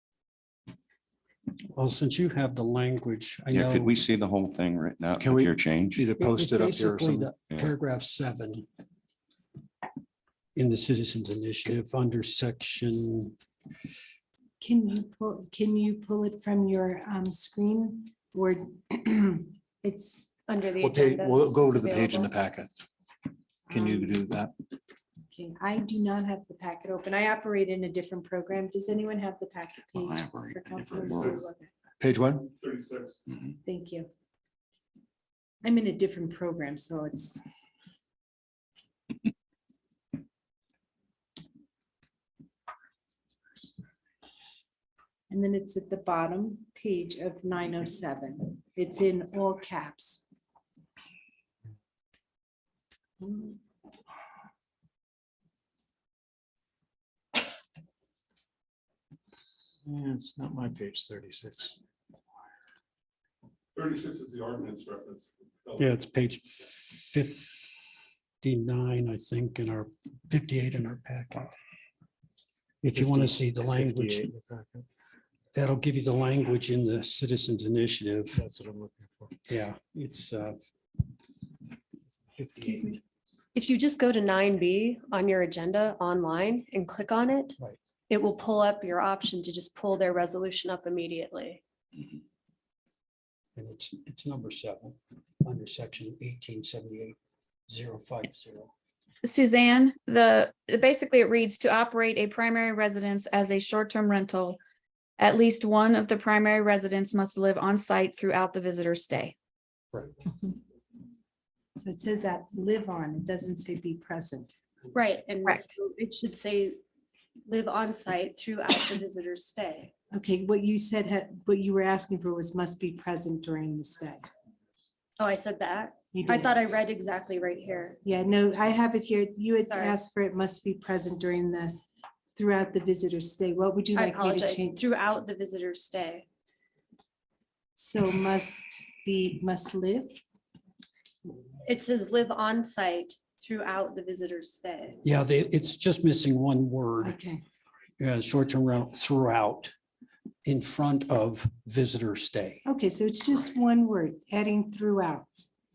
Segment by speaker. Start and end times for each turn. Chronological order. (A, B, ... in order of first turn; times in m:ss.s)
0:01.7-0:04.0 A
0:03.5-0:06.1 B
0:05.2-0:07.3 C
0:06.2-0:08.7 A
0:07.5-0:07.7 B
0:10.6-0:13.3 A
0:14.6-0:20.4 D
0:20.5-0:22.4 E
0:20.8-0:22.7 C
0:23.7-0:24.6 C
0:23.8-0:24.1 D
0:25.3-0:31.7 D
0:30.0-0:31.4 B
0:32.0-0:32.5 C
0:32.6-0:33.2 F
0:33.6-0:34.1 D
0:35.6-0:37.4 D
0:45.3-0:50.3 D
0:59.8-1:01.8 C
1:03.8-1:05.8 F
1:05.8-1:11.5 A
1:12.8-1:14.3 A
1:12.9-1:14.9 C
1:15.5-1:18.4 A
1:18.3-1:19.4 C
1:19.5-1:20.6 A
1:22.3-1:22.9 C
1:22.6-1:23.0 E
1:23.5-1:31.6 E
1:33.6-1:37.2 A
1:37.7-1:38.7 A
1:39.2-1:44.6 G
1:45.2-1:49.3 G
1:51.8-1:54.6 D
1:54.9-1:56.8 E
1:57.5-1:59.9 E
2:00.1-2:04.2 D
2:05.2-2:08.0 E
2:06.1-2:06.5 D
2:08.0-2:11.8 D
2:09.7-2:10.0 E
2:12.4-2:14.8 D
2:14.0-2:16.2 E
2:17.8-2:20.2 D
2:21.6-2:25.0 E
2:25.0-2:27.2 A
2:27.0-2:27.4 D
2:28.0-2:29.7 A
2:30.4-2:32.6 A
2:32.7-2:35.5 D